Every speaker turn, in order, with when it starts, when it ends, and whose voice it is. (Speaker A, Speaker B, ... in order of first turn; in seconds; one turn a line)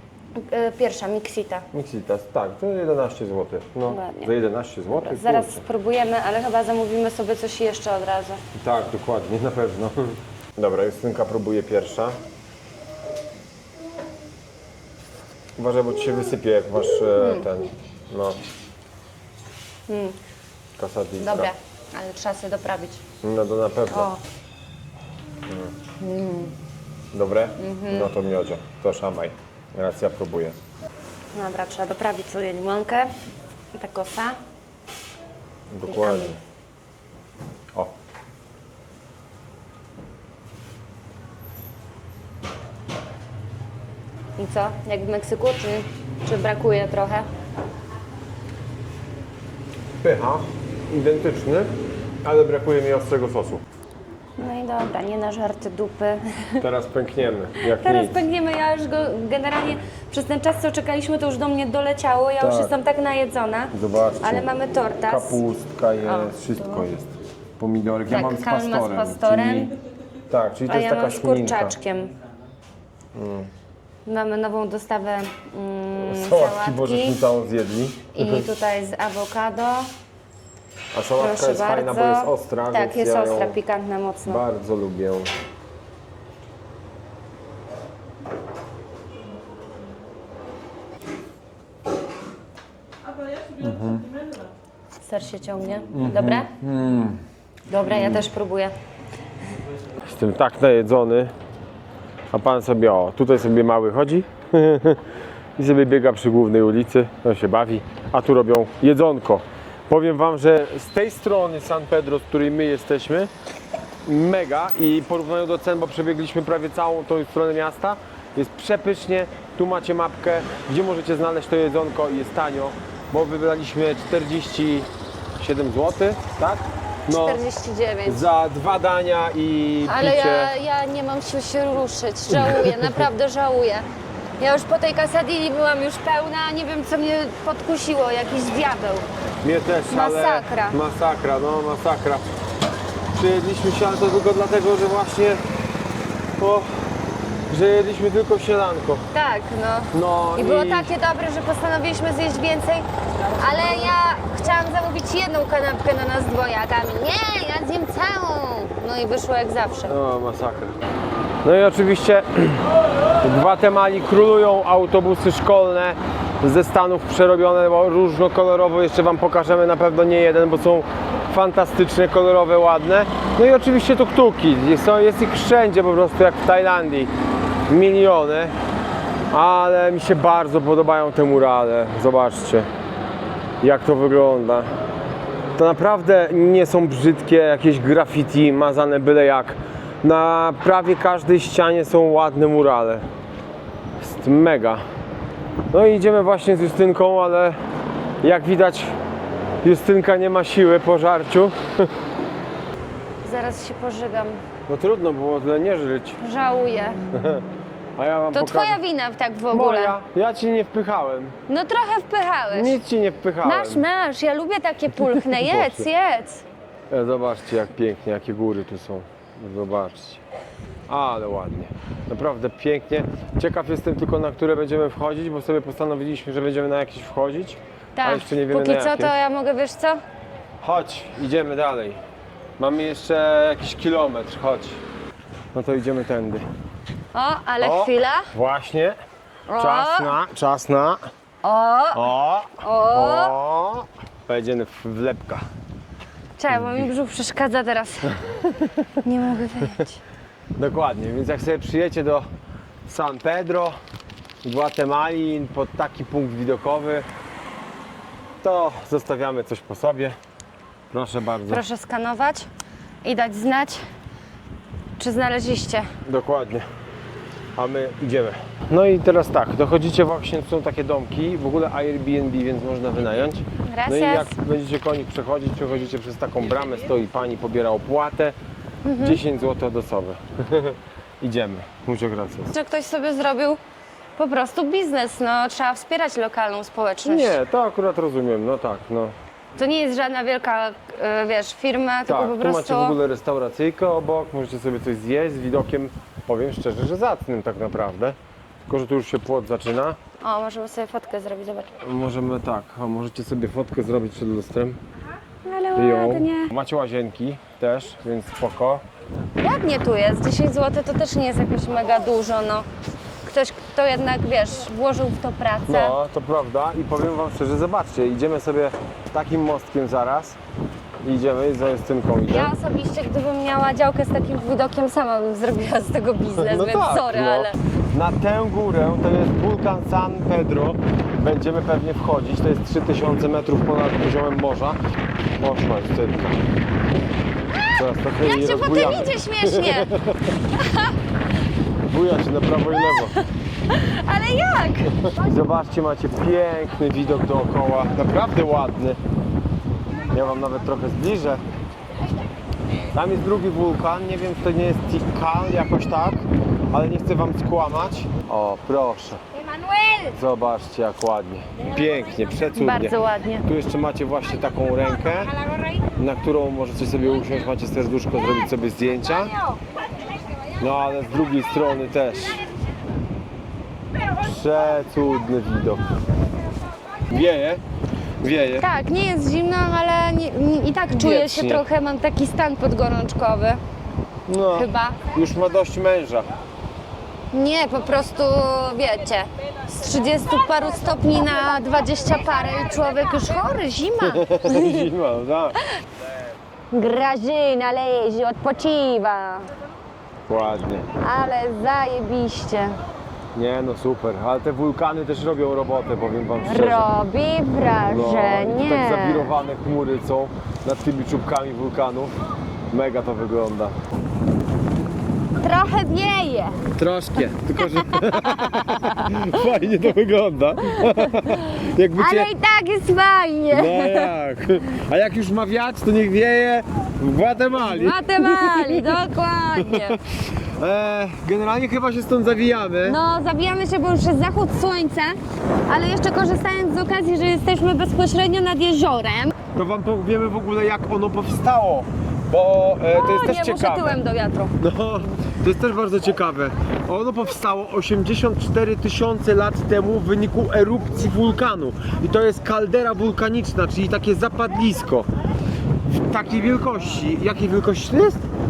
Speaker A: 0.4-1.7
Speaker B: 1.7-5.6
Speaker A: 3.9-4.3
Speaker A: 4.9-8.4
Speaker B: 8.5-12.2
Speaker B: 15.6-18.4
Speaker A: 17.2-17.5
Speaker A: 19.9-20.2
Speaker B: 20.8-21.5
Speaker A: 21.2-23.0
Speaker B: 23.2-24.1
Speaker A: 23.9-24.2
Speaker B: 25.5-25.7
Speaker A: 26.0-26.5
Speaker B: 27.1-30.6
Speaker A: 27.6-28.1
Speaker A: 31.3-33.1
Speaker A: 33.7-34.4
Speaker B: 35.7-36.4
Speaker A: 35.9-36.4
Speaker A: 44.4-47.3
Speaker B: 50.0-53.6
Speaker A: 54.4-56.7
Speaker B: 56.6-58.2
Speaker A: 57.6-65.4
Speaker B: 62.4-62.8
Speaker B: 63.7-64.5
Speaker B: 65.1-69.7
Speaker A: 66.0-66.8
Speaker A: 68.1-69.7
Speaker B: 70.3-71.8
Speaker A: 70.7-72.2
Speaker B: 73.1-73.5
Speaker A: 74.1-77.2
Speaker B: 76.0-78.5
Speaker A: 78.2-79.9
Speaker B: 80.9-83.6
Speaker A: 81.2-84.4
Speaker B: 84.3-85.3
Speaker B: 93.6-94.1
Speaker A: 95.0-96.5
Speaker B: 95.9-97.2
Speaker A: 97.7-98.8
Speaker B: 97.8-98.3
Speaker B: 100.0-101.3
Speaker B: 102.3-105.0
Speaker B: 105.6-113.3
Speaker B: 114.0-127.4
Speaker A: 127.1-128.3
Speaker B: 128.1-130.5
Speaker A: 129.8-133.8
Speaker B: 132.3-133.0
Speaker A: 134.4-139.1
Speaker B: 139.4-142.3
Speaker A: 139.9-140.8
Speaker B: 143.1-145.4
Speaker B: 146.4-146.9
Speaker B: 147.5-149.1
Speaker A: 149.1-152.9
Speaker B: 149.9-150.9
Speaker A: 153.4-159.9
Speaker B: 159.9-160.8
Speaker B: 161.4-162.7
Speaker B: 163.2-177.1
Speaker B: 177.7-178.5
Speaker B: 179.3-182.7
Speaker B: 183.6-184.7
Speaker B: 185.6-193.1
Speaker B: 194.0-194.8
Speaker B: 195.7-197.6
Speaker B: 198.2-199.0
Speaker B: 199.6-201.9
Speaker A: 203.2-204.4
Speaker B: 204.7-206.2
Speaker A: 206.2-207.0
Speaker B: 207.1-207.5
Speaker B: 208.0-208.8
Speaker A: 208.3-210.0
Speaker B: 209.5-211.4
Speaker A: 211.5-212.8
Speaker B: 212.5-213.8
Speaker A: 213.4-216.4
Speaker B: 215.1-215.9
Speaker B: 216.9-220.2
Speaker B: 220.9-229.1
Speaker A: 228.0-230.0
Speaker B: 230.6-232.0
Speaker B: 232.6-234.8
Speaker B: 235.5-236.5
Speaker A: 237.1-238.3
Speaker B: 237.6-239.0
Speaker A: 239.5-240.2
Speaker B: 239.6-241.1
Speaker A: 241.4-242.1
Speaker B: 241.9-245.4
Speaker A: 242.6-243.4
Speaker A: 246.4-248.3
Speaker B: 246.5-246.9
Speaker A: 249.0-250.0
Speaker B: 250.6-252.3
Speaker B: 252.9-253.8
Speaker B: 254.4-257.1
Speaker B: 258.4-260.2
Speaker B: 260.9-261.6
Speaker A: 261.5-262.5
Speaker A: 263.0-263.9
Speaker A: 265.0-265.9
Speaker B: 266.1-266.7
Speaker B: 267.6-278.4
Speaker A: 273.6-274.3
Speaker A: 278.9-279.2
Speaker B: 279.0-282.5
Speaker A: 282.5-283.6
Speaker A: 284.2-287.4
Speaker B: 287.0-289.1
Speaker A: 289.6-293.0
Speaker B: 292.1-300.0
Speaker A: 300.2-301.8
Speaker B: 301.8-304.8
Speaker A: 305.4-306.5
Speaker B: 305.8-308.8
Speaker A: 309.4-312.7
Speaker A: 313.2-315.9
Speaker B: 315.7-320.4
Speaker B: 321.0-322.5
Speaker A: 322.3-327.6
Speaker B: 326.3-334.8
Speaker B: 335.4-336.4
Speaker B: 337.7-340.4
Speaker A: 338.2-339.9
Speaker A: 340.6-340.9
Speaker B: 341.9-343.2
Speaker A: 342.8-345.0
Speaker B: 345.1-349.0
Speaker B: 350.1-351.4
Speaker B: 352.9-359.2
Speaker B: 360.0-369.3
Speaker A: 362.6-363.5
Speaker B: 370.6-372.4
Speaker B: 374.2-376.0
Speaker B: 377.1-377.6
Speaker B: 378.2-378.7
Speaker A: 378.6-383.6
Speaker B: 380.9-381.6
Speaker B: 384.3-386.3
Speaker A: 384.6-385.0
Speaker A: 387.3-394.9
Speaker B: 394.0-395.6
Speaker A: 396.7-399.5
Speaker B: 400.3-400.9
Speaker A: 401.0-402.8
Speaker B: 403.4-406.9
Speaker A: 406.4-409.3
Speaker B: 407.9-412.2
Speaker B: 412.7-413.8
Speaker A: 415.4-416.6
Speaker B: 416.8-422.3
Speaker A: 417.6-419.1
Speaker A: 420.8-424.1
Speaker B: 423.5-429.0
Speaker A: 427.6-430.0
Speaker B: 429.6-433.0
Speaker A: 432.8-439.4
Speaker B: 439.5-444.0
Speaker A: 442.9-444.5
Speaker B: 444.6-455.1
Speaker B: 455.8-458.2